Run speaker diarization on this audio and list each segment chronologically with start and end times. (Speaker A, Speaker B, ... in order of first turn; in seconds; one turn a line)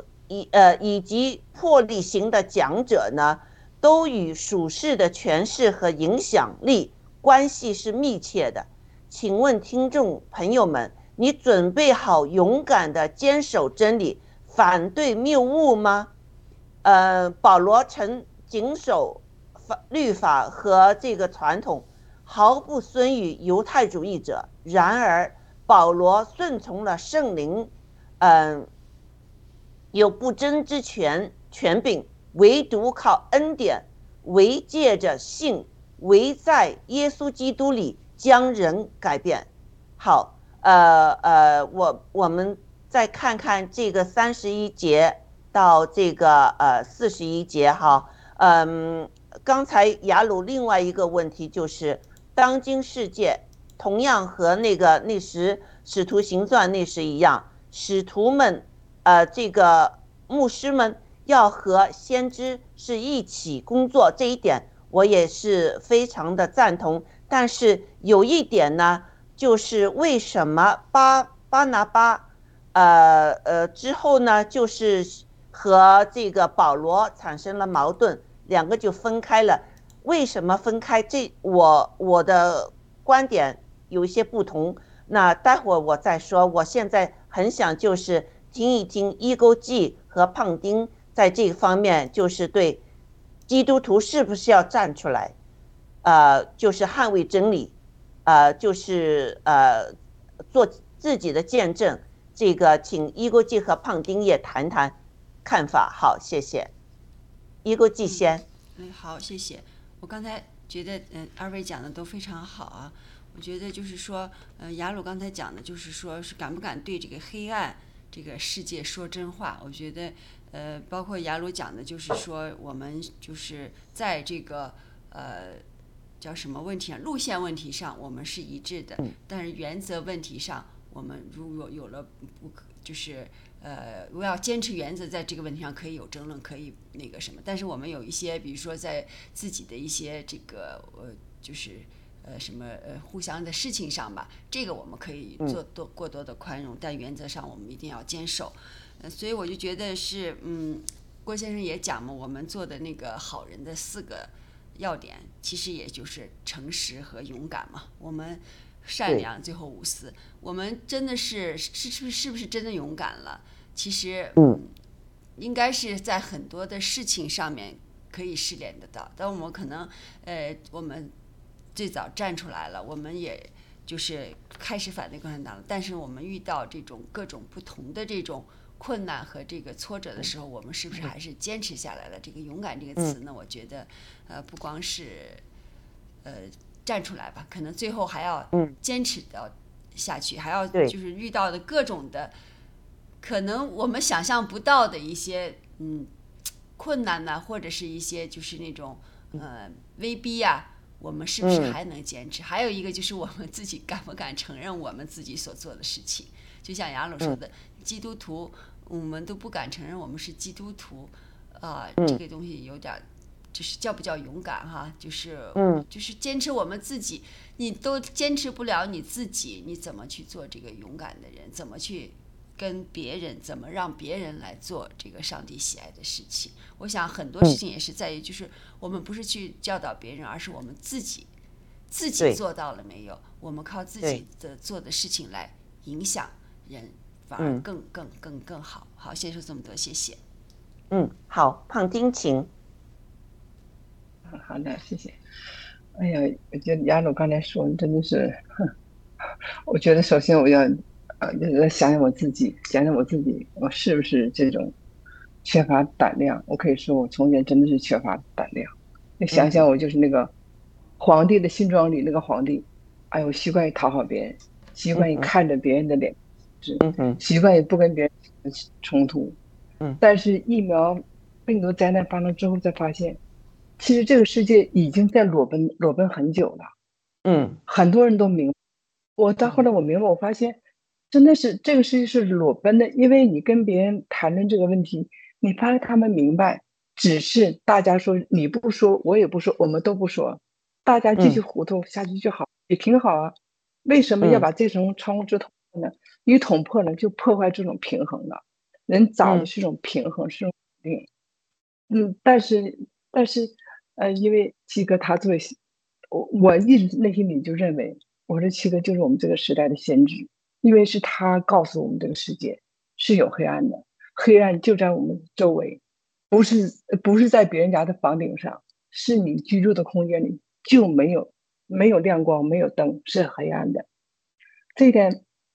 Speaker A: 0.3-16.1
Speaker A: 16.8-28.7
Speaker A: 29.9-39.5
Speaker A: 40.0-92.8
Speaker A: 93.5-95.3
Speaker A: 96.0-97.7
Speaker A: 98.2-99.9
Speaker A: 100.5-106.7
Speaker A: 107.6-108.4
Speaker B: 108.0-125.6
Speaker B: 126.2-164.7
Speaker B: 165.4-171.1
Speaker B: 171.7-185.4
Speaker B: 186.2-192.3
Speaker B: 193.2-196.1
Speaker B: 196.8-231.3
Speaker A: 201.4-201.8
Speaker A: 215.6-215.8
Speaker B: 231.9-240.2
Speaker A: 240.9-242.5
Speaker C: 244.3-245.2
Speaker C: 245.9-248.4
Speaker C: 249.7-254.7
Speaker C: 255.4-260.3
Speaker A: 259.3-259.6
Speaker C: 261.0-269.4
Speaker A: 264.9-265.3
Speaker A: 266.8-267.2
Speaker C: 270.0-273.2
Speaker C: 273.8-276.7
Speaker A: 277.2-277.6
Speaker C: 277.7-278.5
Speaker C: 279.2-280.6
Speaker C: 281.1-301.1
Speaker C: 301.9-305.5
Speaker C: 306.1-315.8
Speaker C: 316.3-323.8
Speaker C: 324.8-325.2